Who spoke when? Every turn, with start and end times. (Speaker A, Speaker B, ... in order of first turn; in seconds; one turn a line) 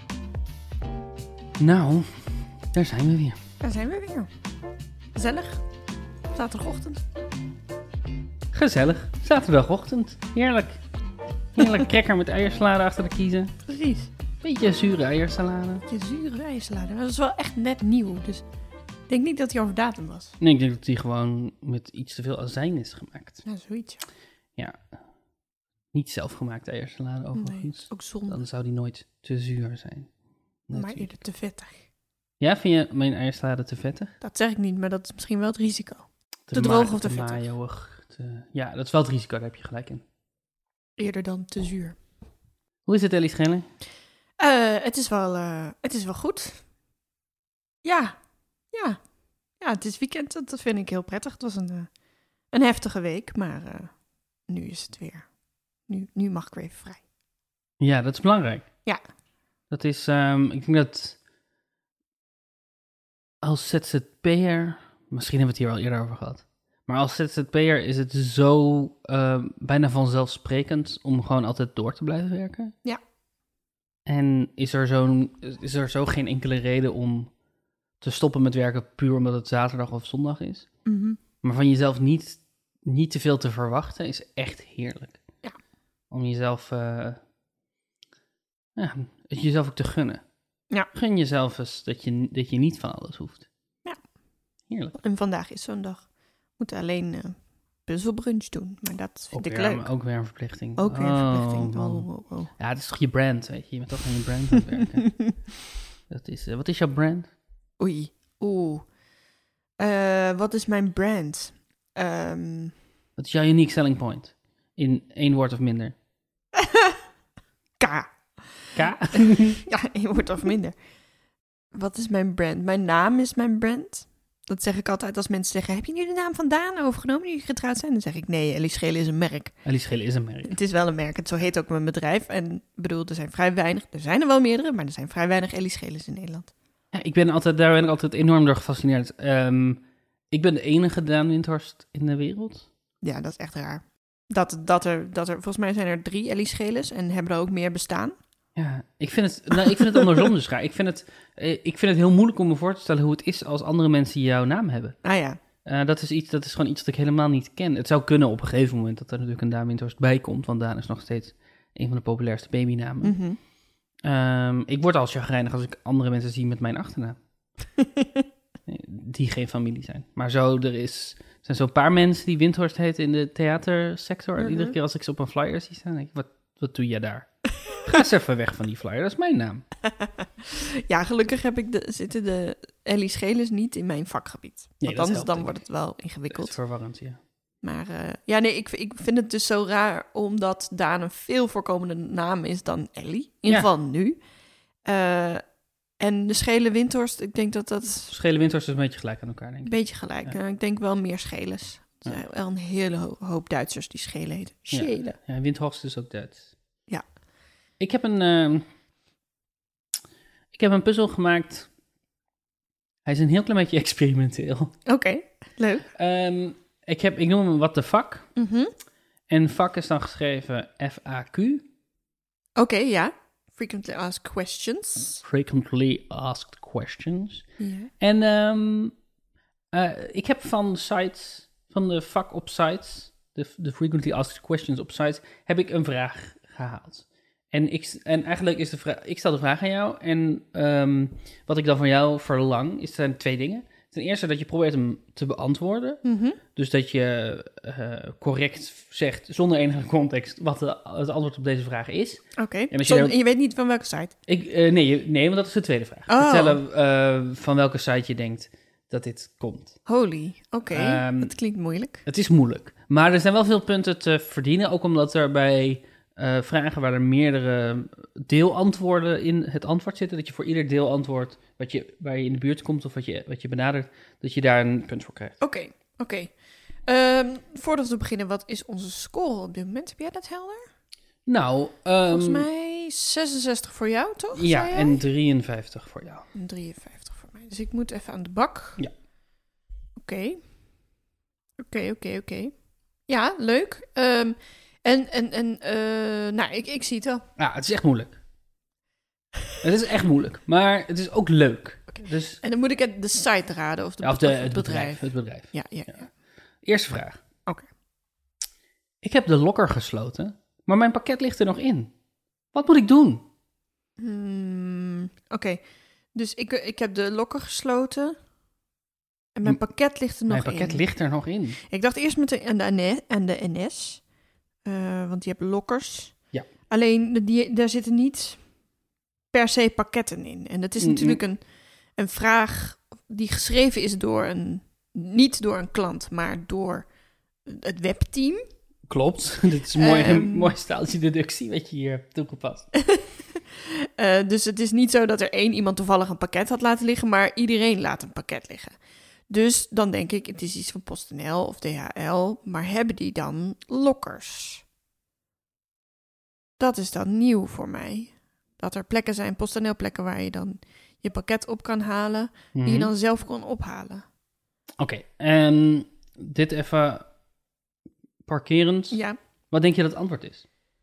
Speaker A: 1.6-2.1
Speaker A: 2.7-3.4
Speaker B: 3.6-4.3
Speaker B: 5.1-5.6
Speaker B: 6.3-7.0
Speaker A: 8.5-10.8
Speaker A: 11.5-13.5
Speaker B: 13.6-14.1
Speaker A: 14.4-15.8
Speaker B: 15.9-18.4
Speaker B: 19.1-20.4
Speaker A: 20.4-23.4
Speaker B: 23.4-24.1
Speaker A: 24.6-24.8
Speaker A: 25.9-30.1
Speaker B: 27.3-28.4
Speaker A: 30.7-31.2
Speaker B: 30.7-31.8
Speaker A: 32.4-34.1
Speaker B: 34.2-37.4
Speaker A: 36.5-40.0
Speaker B: 41.0-42.0
Speaker A: 42.9-43.6
Speaker B: 44.4-46.6
Speaker B: 47.8-48.1
Speaker B: 48.7-49.0
Speaker B: 49.6-51.9
Speaker B: 52.5-53.9
Speaker B: 54.5-55.3
Speaker B: 55.9-57.0
Speaker A: 57.8-58.6
Speaker A: 59.7-61.2
Speaker A: 63.4-72.7
Speaker A: 74.0-77.3
Speaker A: 78.0-80.7
Speaker B: 80.8-81.2
Speaker A: 81.4-85.2
Speaker A: 86.1-87.2
Speaker A: 88.8-90.2
Speaker A: 90.9-93.5
Speaker A: 94.7-95.0
Speaker B: 95.0-96.0
Speaker B: 96.6-99.9
Speaker A: 99.3-105.2
Speaker B: 100.8-102.5
Speaker B: 105.0-105.3
Speaker A: 106.1-107.3
Speaker B: 107.8-108.9
Speaker B: 109.8-112.7
Speaker A: 113.2-116.0
Speaker B: 116.6-117.0
Speaker B: 117.8-120.7
Speaker A: 118.8-119.6
Speaker B: 121.7-129.5
Speaker A: 129.6-130.5
Speaker B: 130.4-136.5
Speaker A: 136.9-142.7
Speaker B: 143.0-148.1
Speaker A: 148.6-155.0
Speaker B: 149.6-150.2
Speaker B: 155.0-155.4
Speaker A: 155.6-163.2
Speaker B: 163.0-163.4
Speaker A: 164.0-167.2
Speaker B: 167.8-168.2
Speaker A: 168.7-177.3
Speaker B: 174.4-174.7
Speaker A: 177.8-179.6
Speaker B: 179.9-186.6
Speaker A: 184.8-185.6
Speaker A: 186.3-187.2
Speaker B: 187.6-194.2
Speaker B: 194.8-195.4
Speaker B: 196.0-198.1
Speaker A: 198.1-199.7
Speaker B: 199.7-205.1
Speaker A: 204.7-206.4
Speaker A: 207.8-208.6
Speaker A: 210.5-211.7
Speaker A: 213.0-214.7
Speaker B: 214.8-215.9
Speaker A: 215.9-218.3
Speaker B: 218.3-218.7
Speaker A: 219.3-221.6
Speaker B: 222.6-225.2
Speaker A: 225.2-227.4
Speaker B: 227.6-227.9
Speaker A: 228.0-228.9
Speaker A: 229.7-253.2
Speaker B: 246.0-246.4
Speaker B: 252.4-254.1
Speaker A: 254.3-259.8
Speaker B: 256.1-256.6
Speaker B: 259.9-262.0
Speaker A: 260.7-261.3
Speaker A: 262.1-275.4
Speaker B: 275.4-276.3
Speaker B: 276.9-280.7
Speaker A: 281.2-282.4
Speaker B: 282.1-285.0
Speaker A: 284.3-286.2
Speaker B: 286.3-288.8
Speaker B: 290.0-290.4
Speaker B: 291.6-292.5
Speaker B: 293.1-297.2
Speaker A: 297.4-298.1
Speaker A: 299.6-302.4
Speaker B: 302.4-306.1
Speaker A: 304.0-305.5
Speaker A: 306.6-307.2
Speaker A: 309.0-311.9
Speaker A: 312.5-313.2
Speaker B: 314.0-315.6
Speaker B: 316.1-318.1
Speaker B: 319.4-320.8
Speaker A: 320.3-321.6
Speaker B: 321.7-324.0
Speaker B: 324.6-326.1
Speaker B: 326.7-328.4
Speaker B: 329.3-331.4
Speaker A: 330.8-331.2
Speaker B: 332.0-336.9
Speaker B: 337.4-338.4
Speaker A: 338.9-342.7
Speaker B: 339.8-340.5
Speaker B: 342.8-348.8
Speaker B: 349.3-354.6
Speaker B: 356.6-364.0
Speaker A: 362.5-362.9
Speaker A: 364.8-367.1
Speaker A: 368.2-369.0
Speaker B: 368.9-369.2
Speaker A: 369.5-370.4